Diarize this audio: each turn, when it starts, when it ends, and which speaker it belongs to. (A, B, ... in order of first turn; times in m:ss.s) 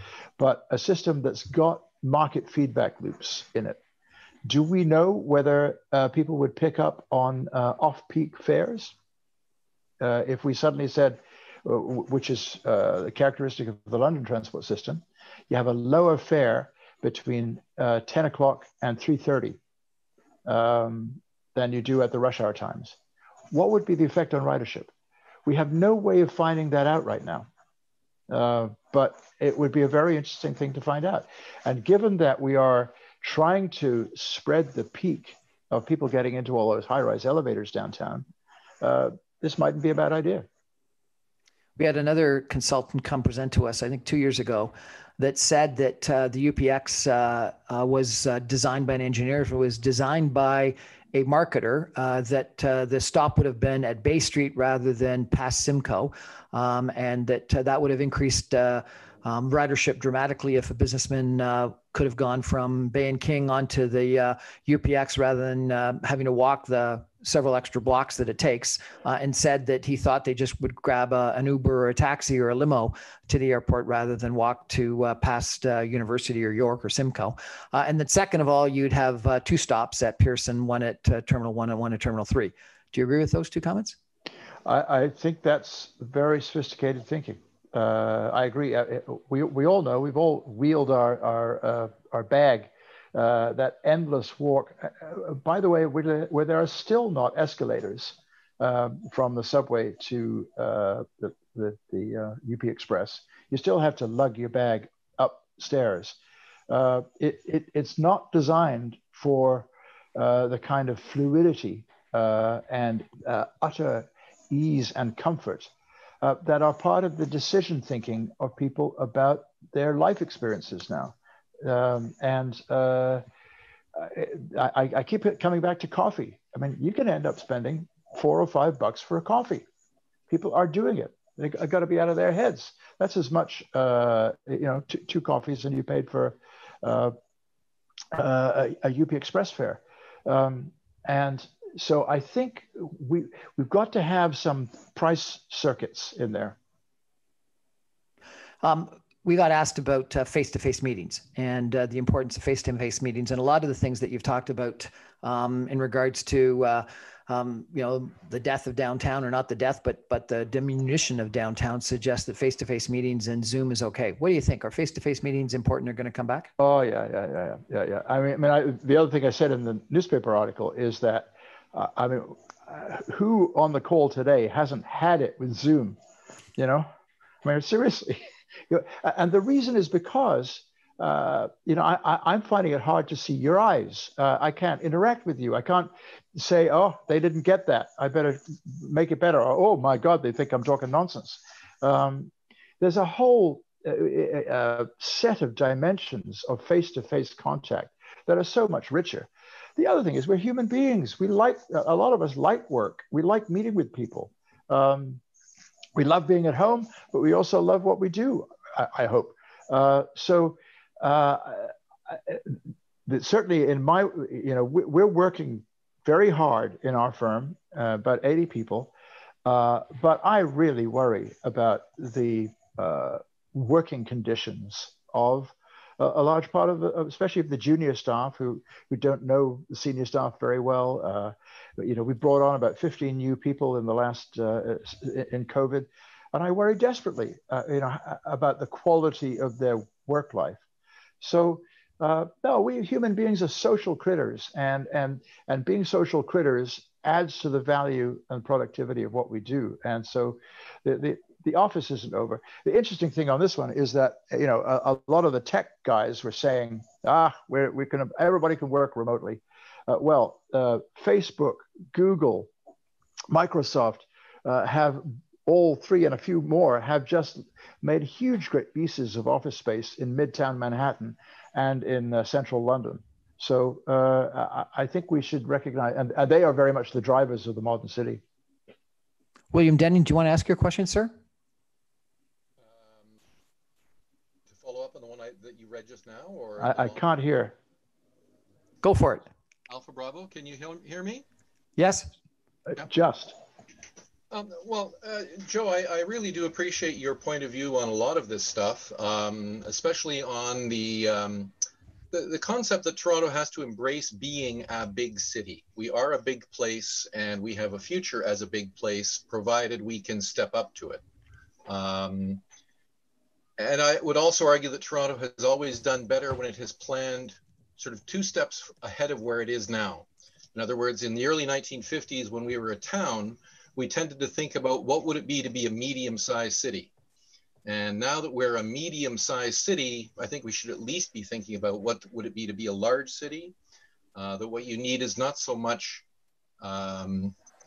0:00.4-0:03.8 A
0:04.4-0:08.9 A
0:10.0-0:19.6 A
0:20.4-0:23.0 A
0:23.5-0:24.9 A
0:25.4-0:27.5 A
0:28.3-0:38.3 A
0:38.8-0:40.4 A
0:41.8-1:24.0 B
1:24.6-1:46.2 A
1:46.7-2:03.2 A
2:04.0-2:09.6 A
2:10.3-2:17.1 A
2:18.1-2:26.6 A
2:28.6-2:46.5 B
2:46.6-2:56.0 A
2:56.6-2:56.9 A
2:57.4-3:25.2 A
3:26.0-3:38.9 A
3:39.4-4:00.6 A
4:01.2-4:22.5 A
4:23.3-4:38.2 A
4:39.5-4:41.1 B
4:42.6-4:43.1 C
4:44.5-4:47.0 C
4:46.6-4:47.5 A
4:48.8-4:49.3 B
4:49.7-4:51.2 C
4:51.8-4:52.1 B
4:52.8-4:53.3 A
4:54.3-5:01.5 C
5:02.1-5:11.0 C
5:11.6-5:12.4 C
5:13.6-5:26.9 C
5:27.6-5:33.5 C
5:34.1-5:36.0 C
5:36.6-5:37.3 C